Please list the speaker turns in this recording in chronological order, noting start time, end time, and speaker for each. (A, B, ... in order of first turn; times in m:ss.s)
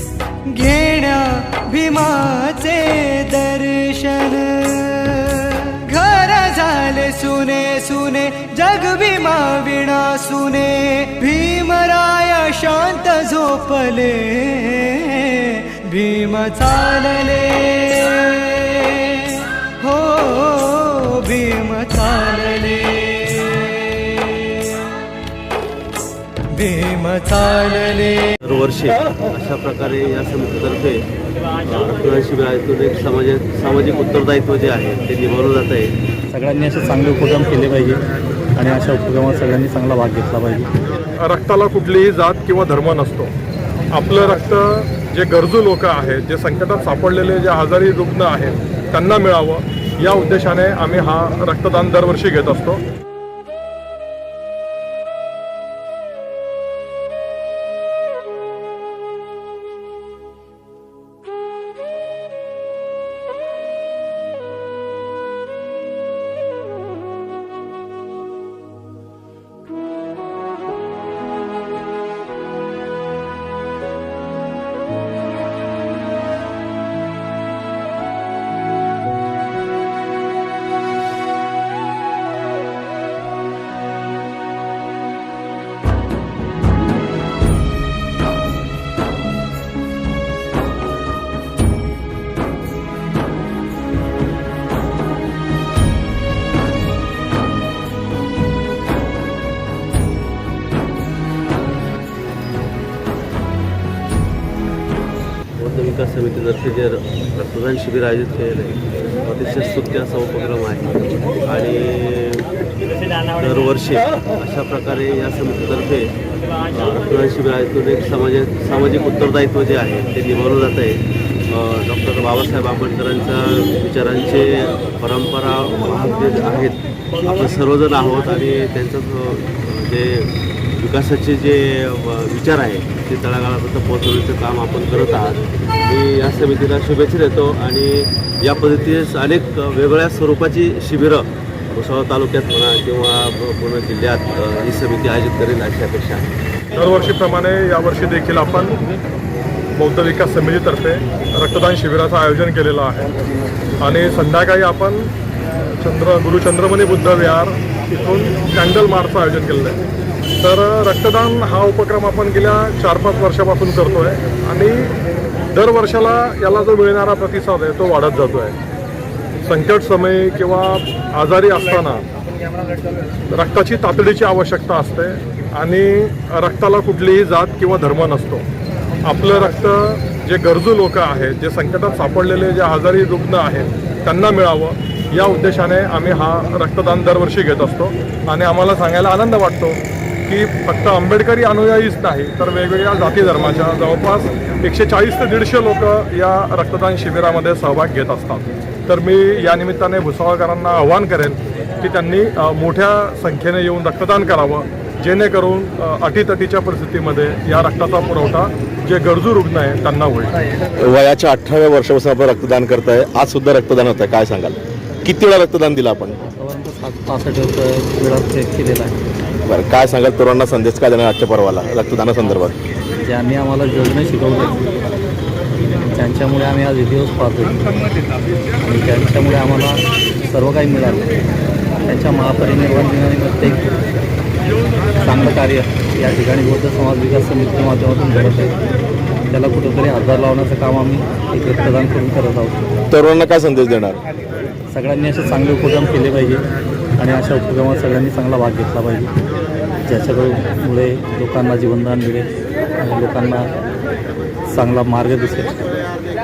0:00.5-0:24.9 A
0:26.5-0:28.3 A
0:28.4-0:31.0 B
0:31.6-0:35.9 B
0:36.3-0:38.0 C
0:38.5-0:40.7 C
0:41.2-0:43.3 D
0:43.9-0:52.8 D
1:45.6-1:52.5 B
1:53.3-1:56.1 B
1:56.7-2:26.2 B
2:26.7-2:28.8 D
2:29.8-2:33.1 D
2:33.8-2:35.1 D
2:35.8-2:39.8 D
2:40.4-2:44.9 D
2:45.5-2:48.5 D
2:49.4-2:52.0 D
2:53.3-2:58.4 D
2:59.0-3:30.4 D
3:30.7-3:36.2 E
3:36.3-3:39.0 C
3:39.4-3:42.6 E
3:43.0-3:44.7 C
3:45.9-3:47.6 C
3:48.6-3:51.1 C
3:51.8-3:53.7 C
3:55.0-3:58.6 C
3:59.3-4:02.6 C
4:02.9-4:04.0 E
4:04.7-4:06.4 C
4:07.0-4:09.1 C
4:09.8-4:13.5 C
4:14.5-4:15.7 C